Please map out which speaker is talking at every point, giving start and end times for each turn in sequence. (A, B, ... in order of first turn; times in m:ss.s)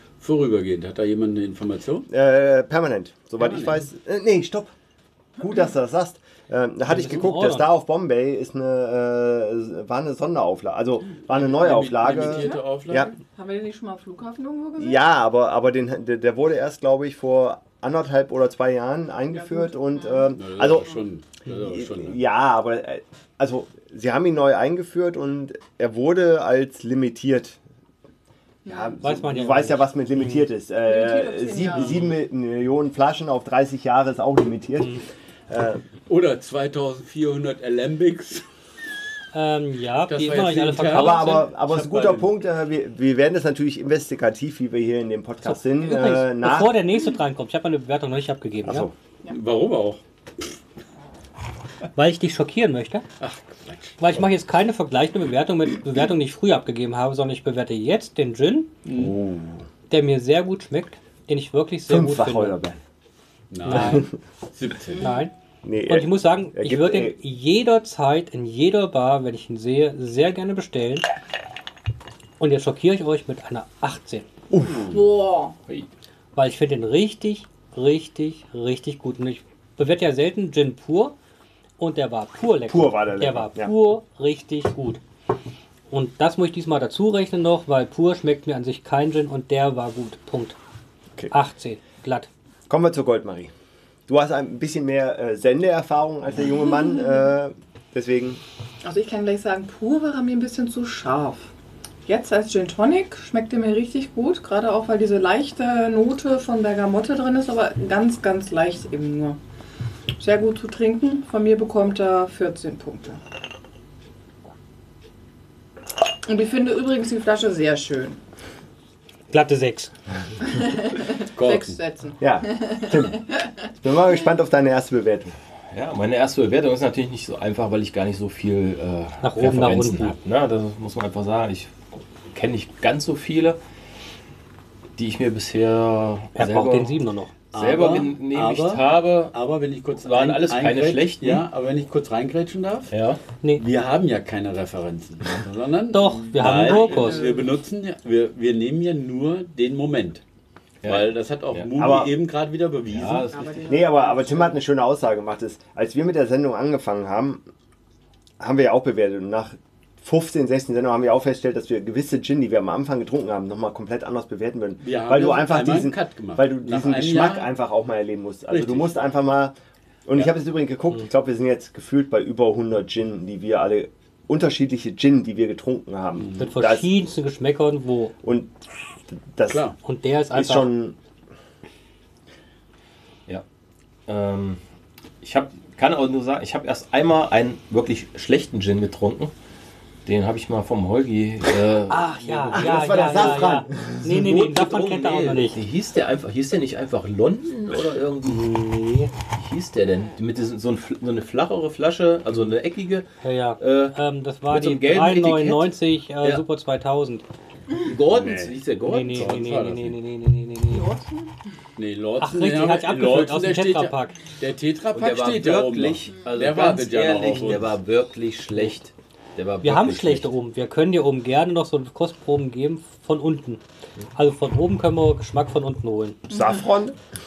0:00.2-0:02.1 A
0:02.1-0:04.7 B
0:03.4-0:03.8 A
0:05.4-0:13.1 B
0:06.9-0:07.7 C
0:11.3-0:13.1 A
0:12.3-0:15.0 D
0:14.8-0:27.6 B
0:19.3-0:20.3 D
0:20.3-0:22.2 A
0:28.7-0:29.0 D
0:28.7-0:35.8 B
0:29.0-0:30.5 C
0:30.8-0:32.0 D
0:31.7-0:32.0 A
0:36.1-0:38.5 A
0:39.3-0:41.5 C
0:40.1-0:42.3 A
0:40.9-0:46.8 B
0:45.4-0:48.9 C
0:48.6-0:48.9 B
0:49.3-0:50.0 A
0:52.0-0:53.0 C
0:53.2-0:54.0 A
0:54.0-0:58.7 C
0:58.9-0:59.1 A
0:59.0-0:59.6 B
0:59.9-1:02.6 C
1:01.9-1:02.8 B
1:03.5-1:05.1 A
1:03.6-1:04.1 C
1:03.7-1:04.0 B
1:05.0-1:05.3 D
1:05.0-1:05.3 C
1:05.6-1:07.2 B
1:05.9-1:11.1 C
1:12.4-1:14.3 C
1:14.5-1:15.0 B
1:14.8-1:15.6 D
1:16.4-1:21.2 C
1:21.8-1:25.0 C
1:22.7-1:23.7 B
1:25.9-1:30.6 C
1:31.3-1:32.3 C
1:32.7-1:33.5 B
1:34.1-1:38.4 B
1:38.8-1:41.5 D
1:42.1-1:49.4 D
1:50.2-1:53.2 D
1:56.2-1:58.2 D
1:59.3-1:59.9 C
2:00.5-2:03.0 D
2:01.4-2:01.8 A
2:02.2-2:03.2 B
2:03.7-2:05.3 B
2:05.7-2:11.7 E
2:09.2-2:10.2 C
2:12.3-2:13.6 E
2:15.0-2:17.0 E
2:16.4-2:17.4 C
2:17.5-2:19.4 E
2:17.5-2:22.9 A
2:20.0-2:21.5 E
2:22.9-2:23.2 E
2:23.6-2:30.2 A
2:25.9-2:27.2 C
2:26.4-2:27.5 D
2:30.8-2:31.7 E
2:30.8-2:33.3 A
2:31.8-2:32.2 B
2:32.9-2:33.7 E
2:33.3-2:34.6 D
2:33.7-2:37.4 B
2:38.4-2:49.6 B
2:44.8-2:47.5 A
2:48.5-2:48.9 A
2:50.1-2:56.9 B
2:56.2-2:56.5 A
2:56.4-2:58.1 C
2:58.2-2:58.5 B
2:59.2-2:59.7 B
2:59.5-2:59.8 A
2:59.8-3:00.7 C
3:00.3-3:01.0 B
3:04.1-3:04.6 E
3:05.2-3:09.3 E
3:10.1-3:18.6 E
3:11.9-3:15.6 C
3:12.5-3:14.0 B
3:18.2-3:19.1 C
3:19.4-3:23.1 E
3:23.2-3:27.3 C
3:23.6-3:26.4 E
3:27.8-3:29.6 E
3:28.2-3:28.5 B
3:28.2-3:28.4 A
3:28.8-3:30.9 C
3:29.1-3:30.0 A
3:30.7-3:31.3 D
3:31.8-3:37.8 A
3:32.2-3:34.2 C
3:34.9-3:40.3 E
3:39.6-3:43.6 C
3:44.2-3:46.2 C
3:46.3-3:47.0 B